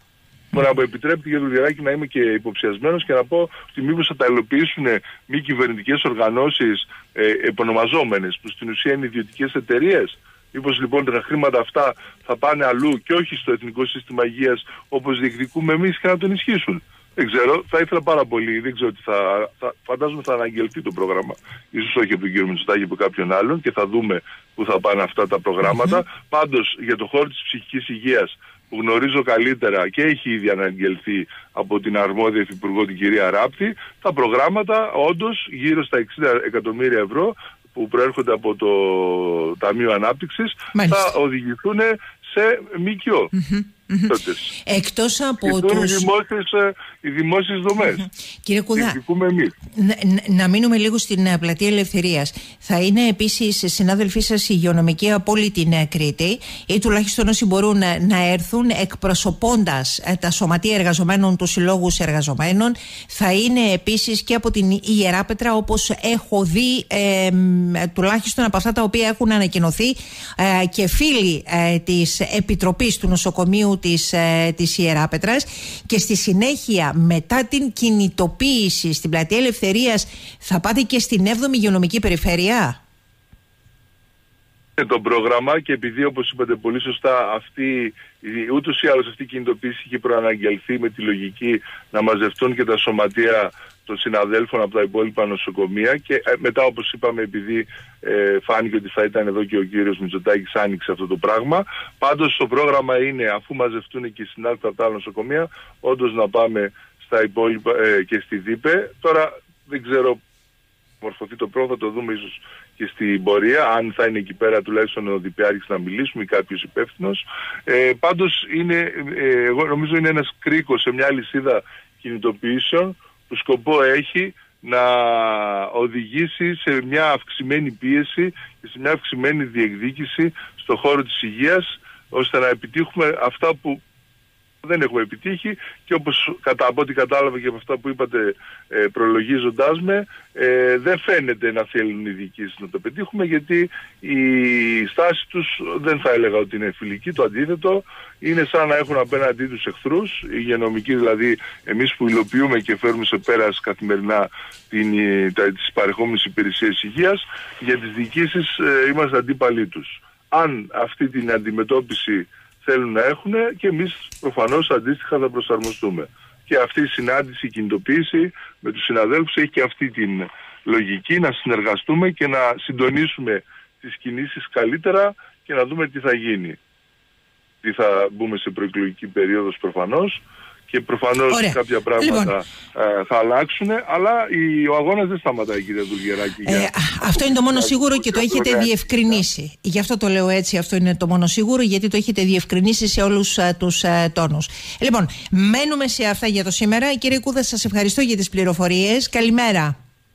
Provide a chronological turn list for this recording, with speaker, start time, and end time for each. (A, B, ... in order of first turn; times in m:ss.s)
0:00.5-0:43.3 A
0:40.7-0:41.1 B
0:43.3-0:46.1 B
0:44.1-0:44.5 A
0:45.4-0:48.0 A
0:47.8-0:49.0 B
0:48.7-0:49.5 A
0:49.7-1:22.8 B
1:24.8-1:50.2 A
1:51.0-2:13.8 A
2:14.6-2:56.6 A
2:57.6-3:09.2 A
3:01.3-3:02.3 B
3:06.4-3:19.7 B